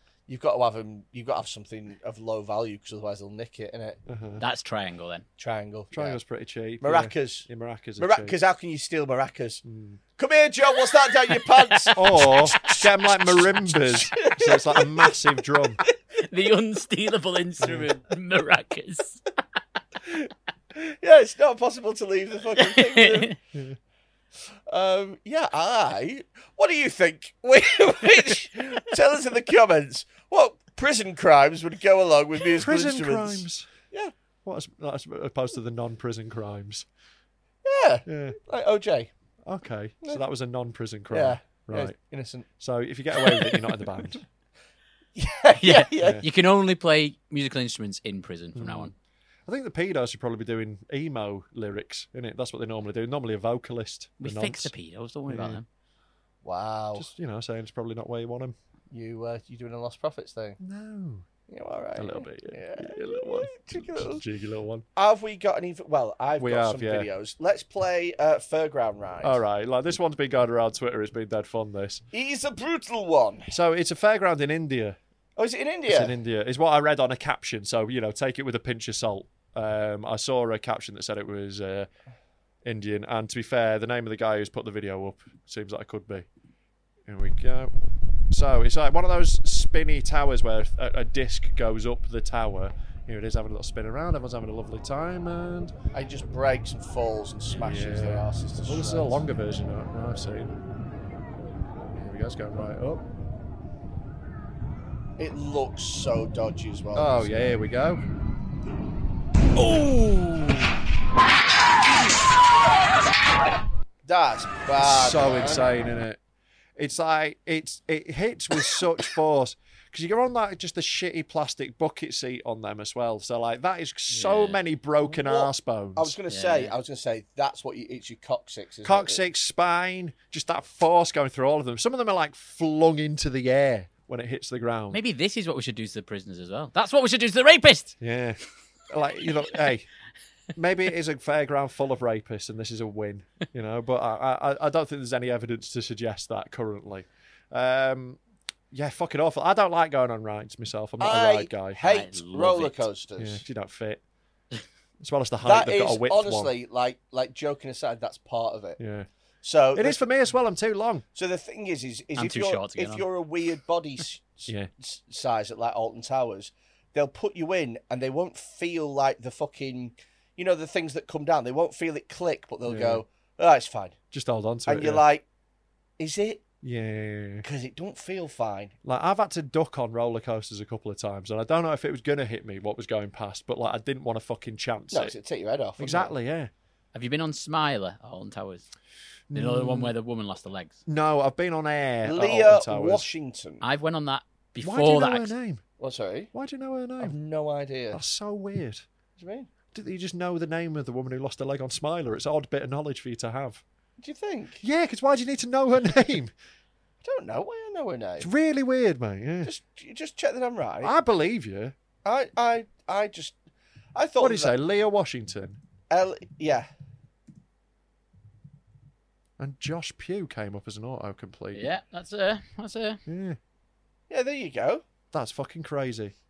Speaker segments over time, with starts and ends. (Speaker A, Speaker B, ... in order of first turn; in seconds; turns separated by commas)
Speaker A: 0.3-4.0, Speaker B: 4.1-4.4, Speaker C: 4.4-5.2, Speaker A: 5.4-6.2, Speaker B: 5.9-8.4, Speaker A: 6.8-9.6, Speaker B: 9.7-10.0, Speaker A: 10.2-15.4, Speaker B: 11.9-15.8, Speaker C: 16.2-19.2, Speaker A: 20.1-23.4, Speaker C: 22.7-23.4, Speaker A: 24.7-34.1, Speaker B: 32.5-33.7, Speaker B: 34.5-36.9, Speaker A: 37.6-39.1, Speaker B: 38.1-38.4, Speaker B: 39.5-42.0, Speaker A: 41.1-42.5, Speaker B: 42.6-44.2, Speaker A: 43.2-43.6, Speaker A: 45.2-46.2, Speaker C: 45.6-48.9, Speaker B: 48.6-48.9, Speaker B: 49.5-54.7, Speaker C: 54.2-55.7, Speaker B: 55.3-55.6, Speaker A: 56.4-57.1, Speaker B: 57.0-58.5, Speaker A: 58.9-60.6, Speaker B: 60.6-61.3, Speaker A: 61.5-64.2, Speaker B: 62.0-64.8, Speaker A: 65.0-69.4, Speaker B: 66.4-67.1, Speaker B: 69.2-72.0, Speaker A: 72.1-73.5, Speaker B: 73.5-75.0, Speaker A: 75.4-76.1, Speaker B: 75.9-81.9, Speaker B: 82.7-86.3, Speaker B: 87.1-87.8, Speaker B: 88.3-95.8, Speaker A: 95.9-99.2, Speaker B: 97.6-100.6, Speaker B: 101.9-103.0, Speaker A: 105.2-107.6, Speaker B: 107.0-108.0, Speaker B: 109.6-110.7, Speaker A: 114.0-115.7, Speaker B: 114.8-116.2, Speaker B: 116.8-126.2, Speaker C: 124.1-124.6, Speaker A: 125.0-129.2, Speaker C: 126.3-126.7, Speaker B: 128.8-135.0, Speaker C: 134.9-138.0, Speaker B: 138.0-138.4, Speaker B: 138.9-139.9, Speaker B: 140.6-148.2, Speaker B: 148.7-151.8, Speaker A: 151.0-153.4, Speaker C: 151.8-152.9, Speaker B: 153.2-154.0, Speaker B: 155.0-156.5, Speaker A: 155.4-158.8, Speaker B: 158.8-159.1, Speaker A: 159.4-160.1, Speaker B: 159.8-161.1, Speaker A: 161.2-174.0, Speaker C: 162.2-163.1, Speaker B: 172.7-173.0, Speaker B: 174.1-175.0, Speaker A: 174.7-175.2, Speaker A: 176.0-176.5, Speaker B: 176.6-177.4, Speaker A: 177.4-178.7, Speaker B: 178.8-185.1, Speaker A: 184.9-186.1, Speaker B: 185.8-186.5, Speaker C: 186.9-188.7, Speaker B: 189.3-189.9, Speaker C: 189.3-190.8, Speaker B: 190.9-193.1, Speaker A: 192.1-193.6, Speaker C: 193.6-195.3, Speaker B: 194.6-195.6, Speaker A: 195.8-196.3, Speaker B: 196.3-197.2, Speaker A: 197.0-198.0, Speaker B: 197.9-198.8, Speaker A: 199.2-199.5, Speaker B: 199.7-203.6, Speaker A: 204.0-204.6, Speaker B: 204.6-206.3, Speaker A: 207.0-208.3, Speaker B: 208.2-209.5, Speaker A: 209.4-210.9, Speaker B: 210.8-211.7, Speaker A: 212.1-213.4, Speaker A: 213.9-214.6, Speaker B: 214.2-215.6, Speaker A: 215.9-216.7, Speaker B: 219.4-221.6, Speaker C: 221.5-223.0, Speaker B: 223.1-223.4, Speaker A: 224.1-224.8, Speaker B: 225.1-226.1